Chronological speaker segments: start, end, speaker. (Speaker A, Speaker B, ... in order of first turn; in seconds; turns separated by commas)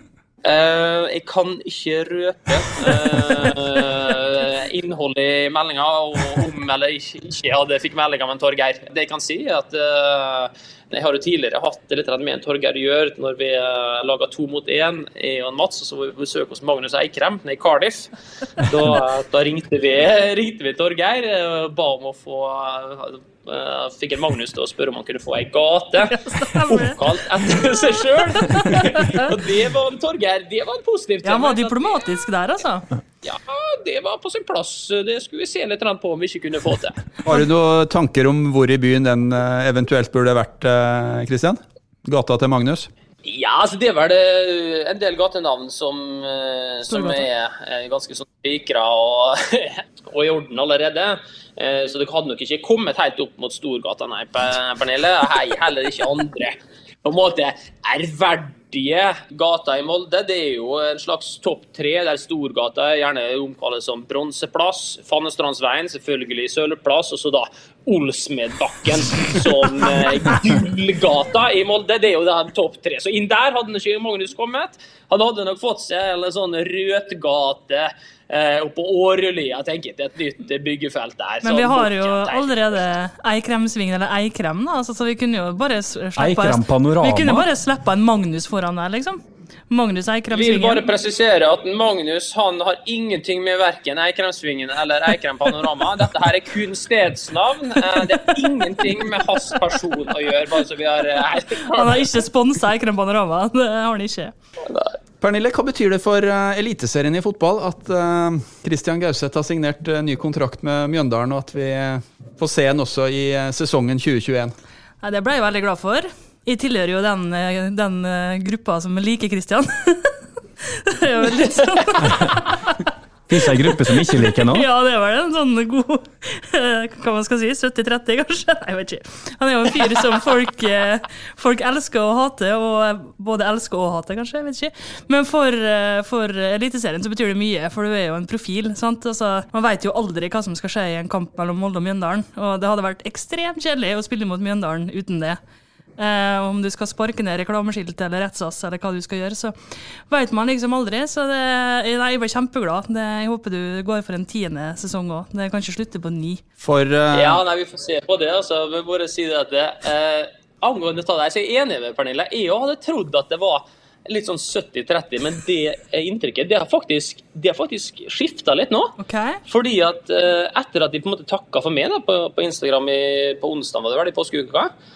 Speaker A: 0.4-32.1, Speaker B: 26.1-27.0, Speaker B: 31.2-32.9, Speaker A: 33.2-37.0, Speaker C: 37.2-42.9, Speaker A: 43.2-82.8, Speaker B: 46.9-47.2, Speaker B: 81.4-90.8, Speaker D: 86.2-87.5, Speaker A: 90.3-102.2, Speaker B: 101.7-104.3, Speaker A: 104.6-104.9, Speaker C: 105.2-114.5, Speaker B: 115.0-120.1, Speaker B: 120.7-122.8, Speaker D: 122.0-122.3, Speaker D: 123.3-124.7, Speaker B: 123.7-145.4, Speaker B: 146.0-156.4, Speaker C: 156.6-157.4, Speaker A: 157.1-174.7, Speaker B: 169.0-169.4